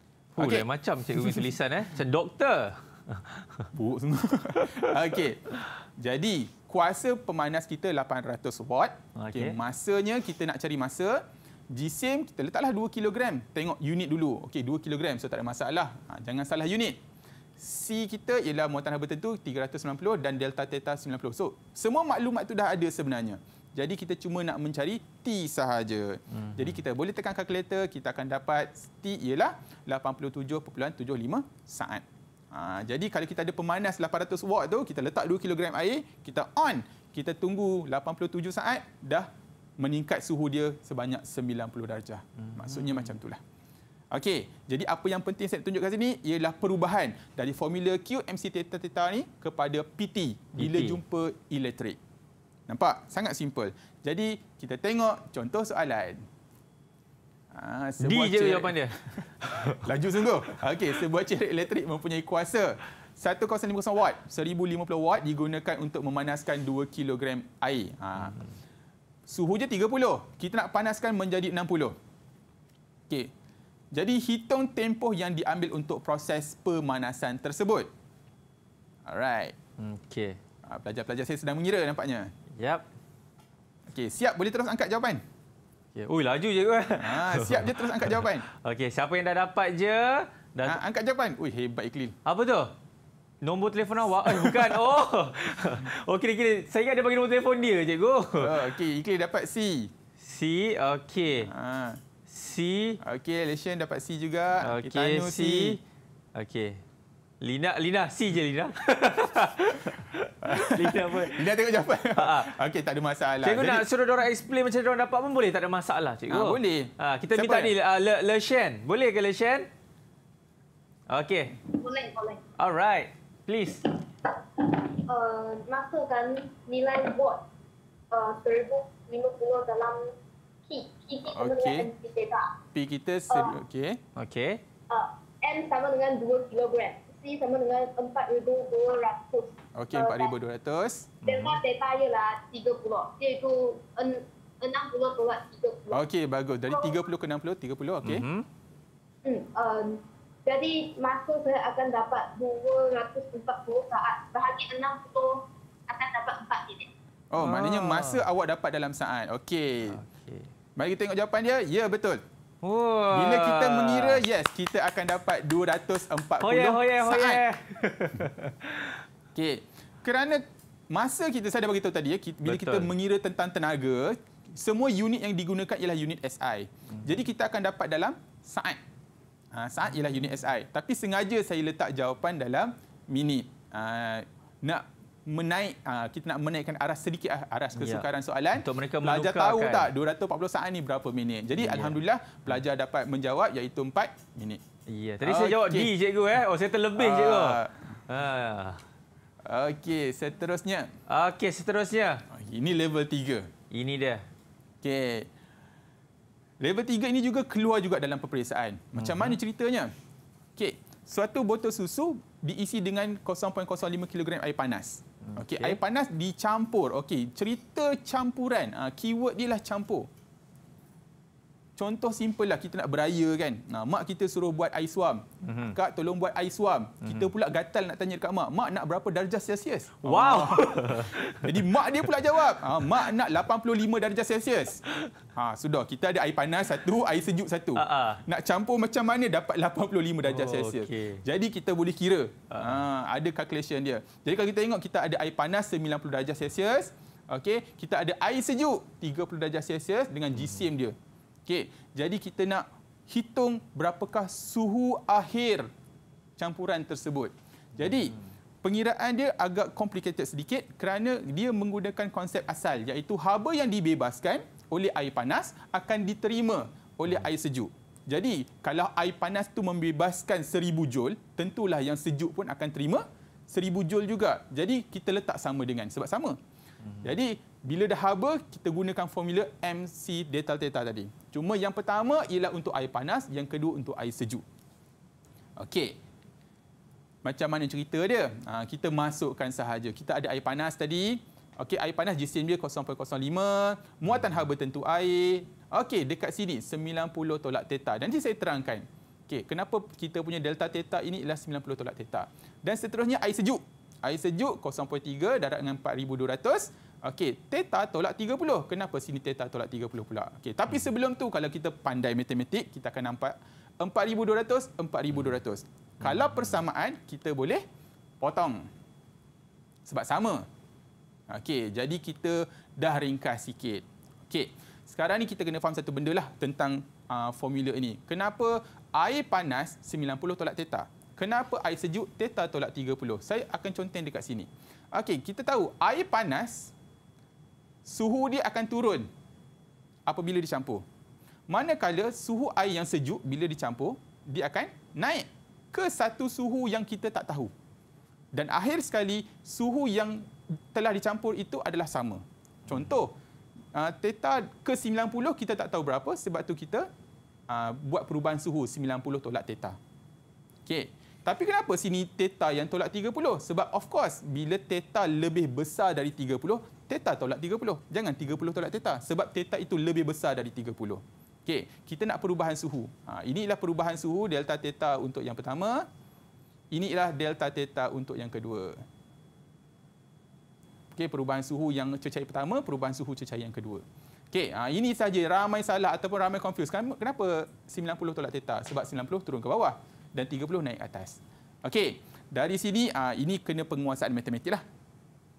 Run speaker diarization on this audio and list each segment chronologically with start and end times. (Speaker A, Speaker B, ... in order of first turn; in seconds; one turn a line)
Speaker A: 0.4-1.4
Speaker B: 0.4-3.7
Speaker A: 3.7-17.0
Speaker B: 4.6-4.9
Speaker B: 9.1-9.6
Speaker A: 17.6-43.4
Speaker B: 26.3-26.8
Speaker B: 42.4-43.2
Speaker A: 44.1-52.0
Speaker B: 50.6-51.0
Speaker A: 52.7-56.2
Speaker A: 57.5-68.4
Speaker B: 58.0-59.8
Speaker A: 69.3-72.0
Speaker A: 73.9-77.9
Speaker A: 79.0-79.5
Speaker B: 79.8-80.4
Speaker A: 80.6-82.3
Speaker B: 82.5-82.8
Speaker A: 83.9-85.2
Speaker B: 86.0-90.8
Speaker A: 87.0-88.5
Speaker A: 90.6-92.1
Speaker B: 92.2-92.7
Speaker B: 93.4-98.7
Speaker A: 94.2-94.9
Speaker A: 98.4-99.9
Speaker B: 100.2-101.5
Speaker A: 101.4-102.0
Speaker B: 102.3-103.0
Speaker A: 103.0-105.8
Speaker B: 104.6-105.8
Speaker B: 106.3-106.8
Speaker B: 107.4-111.5
Speaker A: 110.4-113.8
Speaker B: 112.1-112.5
Speaker B: 113.4-119.7
Speaker A: 116.3-117.7
Speaker B: 121.1-121.5
Speaker C: 121.7-122.4
Speaker B: 122.6-123.8
Speaker C: 124.6-127.4
Speaker C: 128.1-130.0
Speaker C: 130.7-132.5
Speaker A: 131.3-131.9
Speaker A: 132.7-134.0
Speaker C: 133.3-133.6
Speaker B: 134.2-134.6
Speaker C: 134.9-140.3
Speaker A: 139.8-141.2
Speaker B: 141.2-141.6
Speaker C: 141.2-146.0
Speaker A: 145.9-148.2
Speaker C: 146.7-147.0
Speaker B: 148.0-148.5
Speaker C: 149.2-156.9
Speaker A: 157.3-160.0
Speaker B: 157.4-158.2
Speaker B: 159.9-160.5
Speaker A: 160.8-162.2
Speaker B: 162.6-164.2
Speaker A: 163.1-167.4
Speaker B: 166.4-169.0
Speaker A: 169.3-178.8
Speaker B: 172.4-172.9
Speaker A: 179.5-194.6
Speaker B: 187.8-189.9
Speaker B: 191.6-192.0
Speaker B: 194.9-198.8
Speaker A: 195.2-195.9
Speaker A: 196.9-197.9
Speaker A: 199.4-200.9
Speaker B: 201.1-202.2
Speaker A: 202.3-203.5
Speaker B: 203.7-204.2
Speaker A: 204.8-205.3
Speaker A: 206.6-209.9
Speaker B: 209.0-209.4
Speaker A: 210.6-220.1
Speaker B: 215.2-215.8
Speaker A: 221.8-234.8
Speaker B: 225.4-225.8
Speaker B: 227.0-227.3
Speaker B: 230.0-231.8
Speaker A: 235.3-255.7
Speaker B: 237.8-238.2
Speaker B: 240.3-241.2
Speaker B: 242.5-242.8
Speaker A: 256.4-276.4
Speaker B: 257.8-258.2
Speaker B: 276.8-277.1
Speaker A: 277.0-284.4
Speaker A: 285.6-286.0
Speaker A: 287.2-317.6
Speaker B: 316.0-316.5
Speaker A: 318.2-318.7
Speaker A: 319.9-320.4
Speaker A: 321.3-336.7
Speaker A: 337.8-339.1
Speaker A: 340.1-340.8
Speaker A: 341.5-347.5
Speaker A: 348.3-353.1
Speaker A: 353.7-356.9
Speaker A: 357.5-359.8
Speaker A: 360.6-375.9
Speaker A: 376.7-378.8
Speaker A: 380.9-394.6